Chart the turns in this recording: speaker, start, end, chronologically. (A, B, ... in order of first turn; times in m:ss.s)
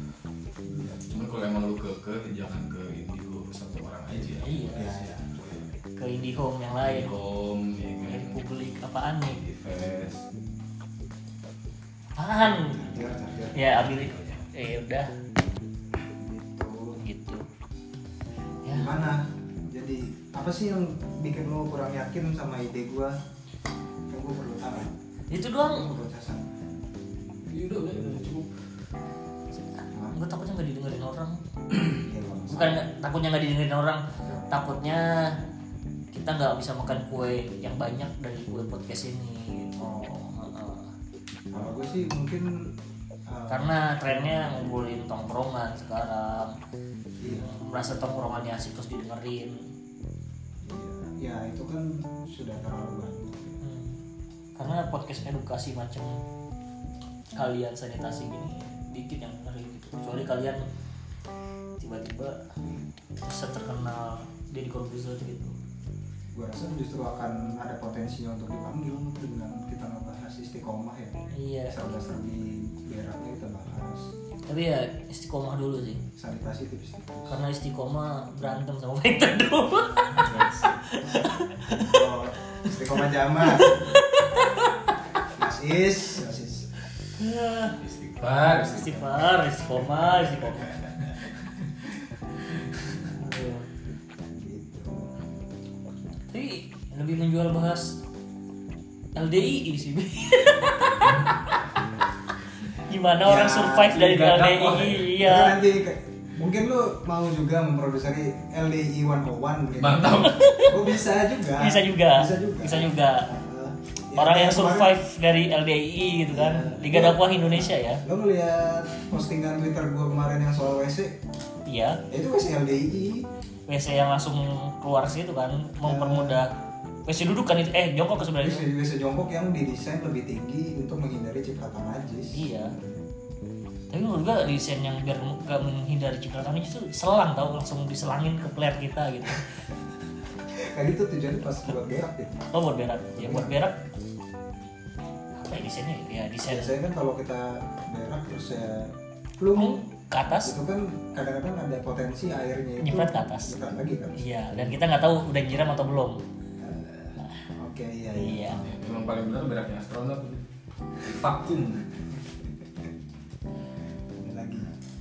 0:00.6-0:01.0 A
0:01.1-0:05.7 B
0:04.2-0:05.2 A
0:04.4-0:04.9 C
0:06.0-0:07.1 C
0:06.9-0:08.4 B
0:08.0-0:09.4 C
0:09.4-0:10.2 B
0:12.2-0:12.8 C
0:12.4-0:13.8 A
0:13.5-0:15.1 C
0:13.9-0:14.4 B
0:16.0-0:17.0 A
0:17.0-0:17.4 C
0:18.6-0:18.9 C
0:18.7-0:23.2 A
0:24.1-0:24.9 A
0:25.3-0:25.9 C
0:25.7-0:26.5 A
0:27.5-0:28.5 B
0:30.1-0:31.4 C
0:32.0-0:32.8 A
0:32.5-0:35.4 C
0:36.1-0:40.9 C
0:39.8-0:40.3 A
0:41.5-0:42.8 A
0:43.3-0:43.7 A
0:43.5-0:46.6 C
0:47.2-0:47.5 A
0:47.3-0:49.6 C
0:50.6-0:53.6 A
0:53.6-0:54.0 C
0:54.6-0:56.2 C
0:57.4-1:00.7 C
1:01.8-1:02.5 C
1:03.2-1:05.6 C
1:06.3-1:14.1 A
1:11.3-1:11.8 C
1:14.5-1:16.0 C
1:16.2-1:17.4 A
1:17.3-1:22.0 C
1:20.2-1:20.8 B
1:21.0-1:23.9 A
1:22.6-1:25.3 C
1:25.3-1:26.7 A
1:27.1-1:27.8 C
1:27.8-1:29.4 B
1:28.6-1:30.9 C
1:33.0-1:33.7 C
1:34.2-1:35.1 A
1:36.3-1:38.0 C
1:39.2-1:41.6 C
1:42.8-1:45.6 C
1:43.2-1:44.0 A
1:43.9-1:45.1 B
1:45.2-1:55.0 A
1:49.8-1:50.6 B
1:50.1-1:51.0 C
1:51.5-1:53.3 C
1:54.2-1:58.0 C
1:56.3-2:01.2 A
2:01.7-2:02.0 C
2:02.1-2:03.3 A
2:03.7-2:06.5 C
2:05.8-2:06.4 A
2:07.1-2:08.7 C
2:08.2-2:12.6 A
2:12.3-2:12.8 C
2:13.9-2:19.6 C
2:20.4-2:22.5 A
2:22.5-2:23.8 C
2:23.2-2:23.5 A
2:25.4-2:26.8 C
2:26.4-2:29.8 A
2:29.5-2:30.6 C
2:30.4-2:34.2 A
2:32.8-2:33.5 C
2:34.2-2:36.2 C
2:36.6-2:38.8 A
2:38.2-2:38.6 C
2:38.6-2:40.4 B
2:41.0-2:41.9 B
2:44.2-2:44.7 A